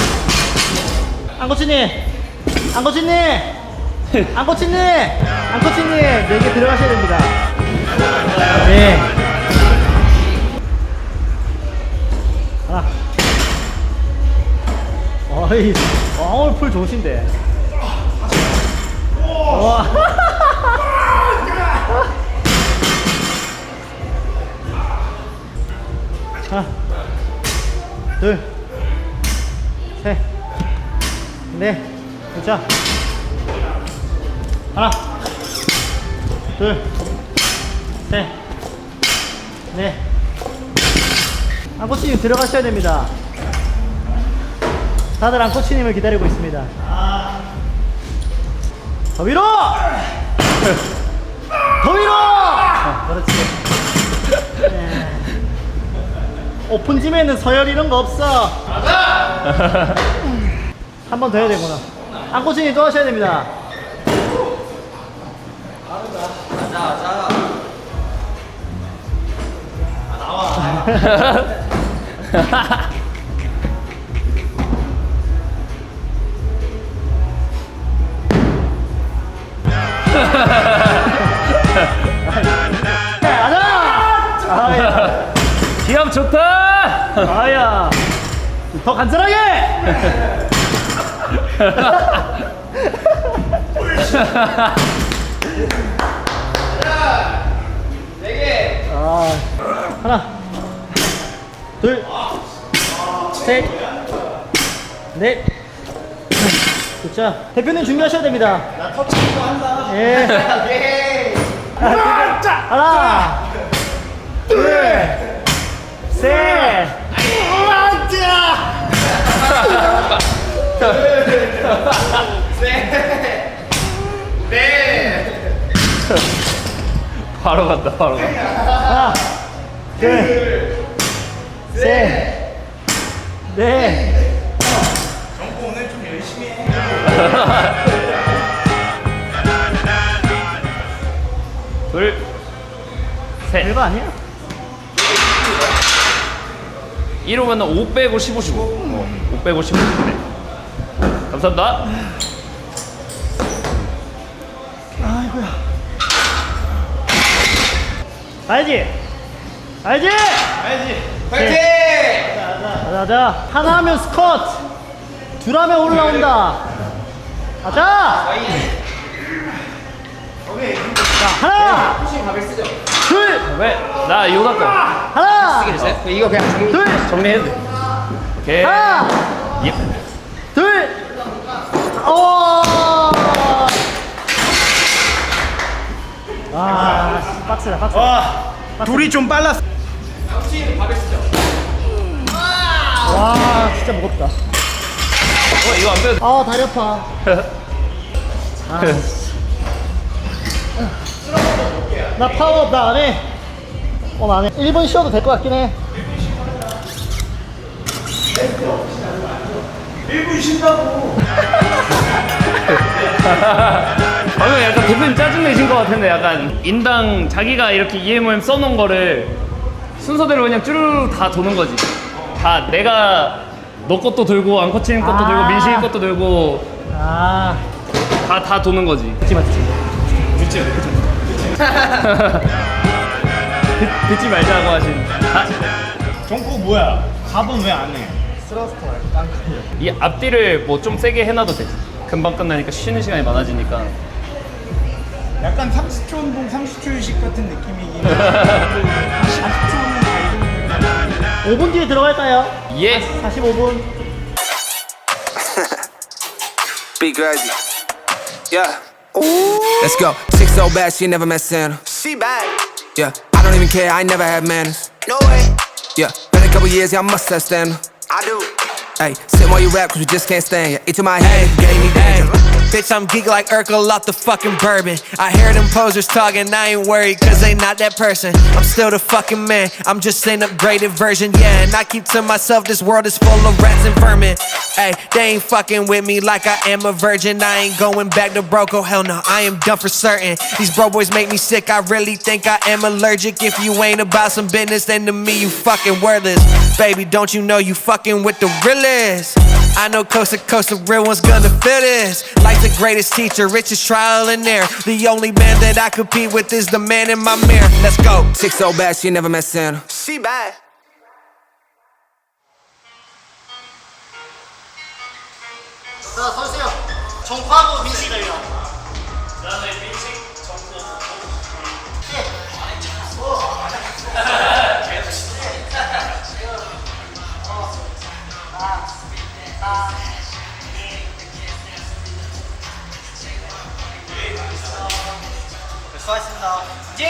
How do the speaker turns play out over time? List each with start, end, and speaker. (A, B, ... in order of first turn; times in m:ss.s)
0:01.4-0:02.0 A
0:02.7-0:03.5 A
0:04.3-0:07.3 A
0:08.5-0:09.1 A
0:15.3-0:17.3 A
0:19.4-0:20.9 A
0:28.2-0:28.4 A
0:31.5-0:32.6 A
0:34.7-0:35.0 A
0:36.6-0:36.8 A
0:38.1-0:38.3 A
0:39.7-0:40.0 A
0:41.8-0:43.1 A
0:45.2-0:46.7 A
0:49.2-0:49.9 A
0:51.8-0:53.5 A
0:54.6-0:55.3 A
0:56.7-0:58.6 A
1:01.1-1:03.5 A
1:11.0-1:11.3 B
1:20.2-1:21.3 B
1:22.2-1:22.6 A
1:23.1-1:25.2 A
1:24.7-1:25.1 B
1:25.8-1:27.3 B
1:27.2-1:28.0 A
1:28.7-1:30.1 A
1:31.8-1:32.3 A
1:32.8-1:33.4 A
1:34.0-1:34.7 B
1:38.8-1:39.5 A
1:40.0-1:40.3 A
1:41.8-1:42.1 A
1:43.3-1:43.8 A
1:45.1-1:45.4 A
1:47.0-1:48.7 A
1:48.8-1:49.8 C
1:49.8-1:50.5 A
1:51.8-1:53.4 A
1:54.5-1:55.2 A
1:56.1-1:57.0 A
1:59.5-2:00.0 B
2:00.9-2:02.2 B
2:07.3-2:08.4 B
2:08.8-2:09.2 A
2:10.0-2:10.4 A
2:11.7-2:12.3 A
2:13.5-2:14.1 A
2:15.3-2:16.9 C
2:17.1-2:17.8 B
2:21.9-2:22.2 B
2:23.6-2:24.1 A
2:27.2-2:30.2 B
2:31.3-2:31.9 B
2:35.0-2:35.6 A
2:38.5-2:38.9 A
2:39.8-2:40.5 A
2:41.3-2:41.6 A
2:41.8-2:42.2 D
2:42.7-2:44.6 A
2:45.4-2:46.6 A
2:47.6-2:48.4 A
2:51.2-2:52.1 A
2:52.2-2:52.7 D
2:53.0-2:53.4 A
2:53.4-2:54.8 B
2:55.1-2:55.9 A
2:55.6-2:56.8 D
2:56.7-2:57.0 A
2:57.0-2:57.6 B
2:58.4-2:59.1 B
2:58.6-2:59.2 A
3:00.5-3:01.0 A
3:02.0-3:03.8 A
3:06.5-3:08.2 A
3:08.0-3:09.6 C
3:08.8-3:09.1 A
3:13.0-3:14.3 A
3:15.6-3:16.2 B
3:16.2-3:17.1 A
3:18.7-3:19.1 A
3:22.2-3:23.2 A
3:24.2-3:25.8 A
3:30.1-3:31.1 C
3:33.2-3:39.4 B
3:40.0-3:46.7 B
3:45.0-3:45.9 A
3:46.9-3:47.6 A
3:48.2-3:49.2 B
3:49.2-3:49.7 A
3:50.4-3:51.4 C
3:51.8-3:52.4 B
3:53.8-3:55.6 B
3:56.3-3:58.2 C
3:58.5-3:59.6 A
3:59.8-4:04.0 B
4:05.4-4:11.3 C
4:08.4-4:08.6 B
4:11.4-4:13.9 A
4:12.7-4:13.0 B
4:17.0-4:17.5 E
4:18.5-4:18.8 E
4:19.5-4:19.7 F
4:19.8-4:21.8 E
4:21.9-4:22.6 F
4:23.0-4:24.9 E
4:25.0-4:25.5 F
4:26.0-4:27.8 E
4:28.1-4:28.5 F
4:29.0-4:32.3 E
4:31.2-5:08.4 G
5:08.4-5:09.8 E
5:09.9-5:10.6 F
5:16.1-5:18.5 A
5:19.6-5:20.4 B
5:36.0-5:36.6 A